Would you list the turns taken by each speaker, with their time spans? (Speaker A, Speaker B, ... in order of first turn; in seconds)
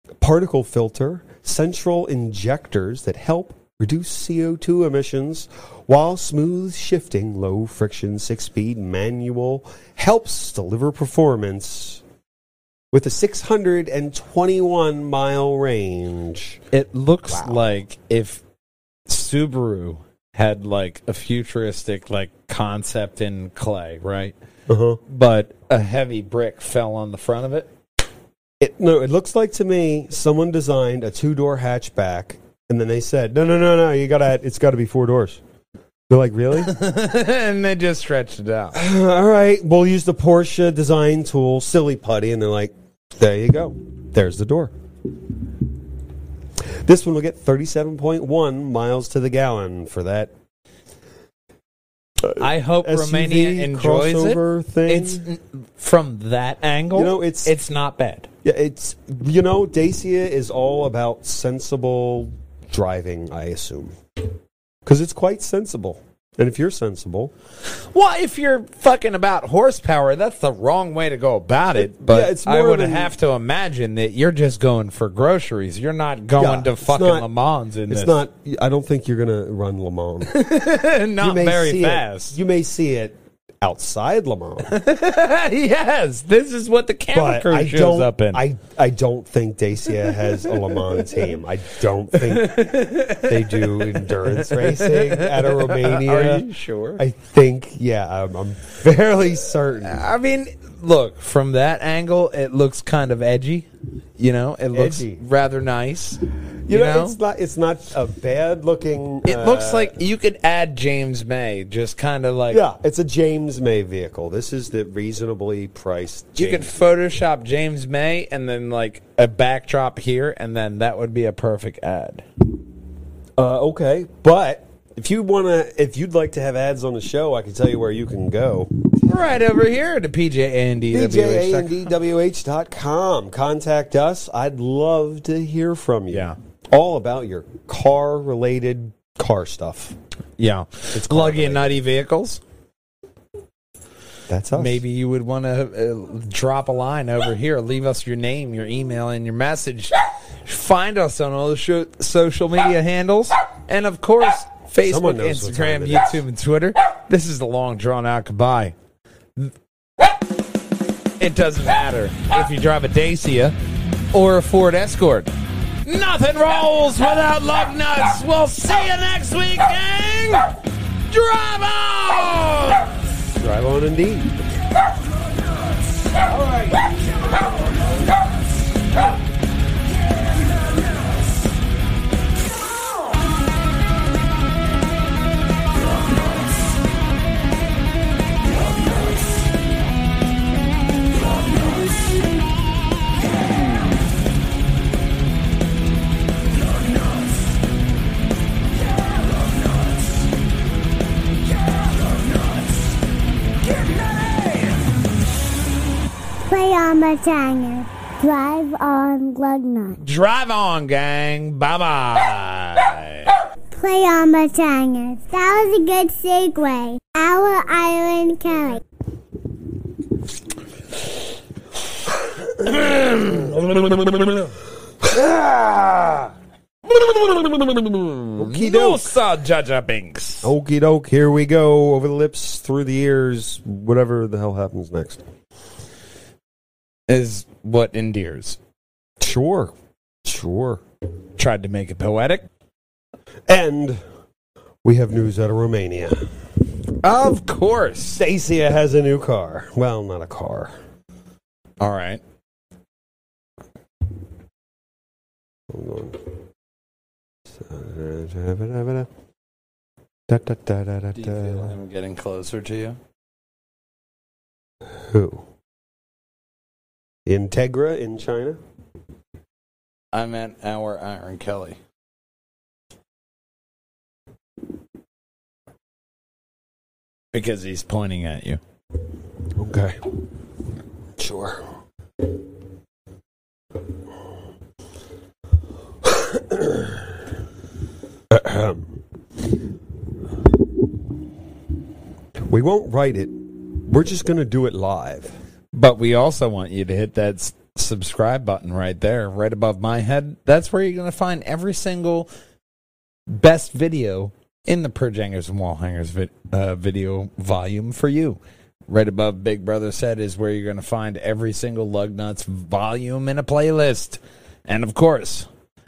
Speaker A: 0.2-12.0, 12.9-16.6, 17.3-17.6, 24.7-25.0, 28.6-35.4, 36.1-36.7, 38.7-44.7, 46.8-50.3, 52.2-55.2, 56.9-57.5, 58.4-63.9, 64.8-67.3, 71.7-73.1, 76.4-77.3, 77.9-80.3, 81.2-84.7, 87.1-100.0, 104.7-105.2, 106.7-110.0, 112.5-116.8, 123.4-128.7, 130.9-139.9, 140.9-141.7, 144.3-144.8, 154.8-156.2, 173.3-174.3, 176.3-176.7, 225.0-226.1, 227.3-229.1, 230.4-235.2, 239.2-239.7, 240.2-240.8, 243.5-244.0, 244.8-246.2, 248.2-250.7, 255.7-256.3, 257.5-259.1, 260.3-261.7, 264.9-265.4, 267.2-268.6, 279.6-280.1, 281.2-281.6, 286.0-287.1, 288.3-288.9, 292.3-295.3
Speaker B: 16.7-18.4, 19.1-24.3, 25.1-27.7, 36.5-38.8, 52.4-58.3, 67.9-78.2, 80.2-82.4, 84.6-88.4, 92.2-97.0, 99.8-103.7, 104.2-107.2, 109.2-112.6, 116.3-122.2, 129.0-131.9, 136.1-136.3, 140.4-142.4, 144.5-158.7, 161.2-163.5, 164.1-165.3, 165.8-170.5, 171.1-172.9, 210.0-213.3, 222.6-223.8, 228.3-230.5, 237.1-238.6, 241.4-242.4, 247.0-248.2, 251.8-252.2, 261.1-263.0, 270.1-271.8, 277.3-278.6, 295.7-302.3, 303.3-315.5
Speaker C: 206.4-210.0, 213.7-218.8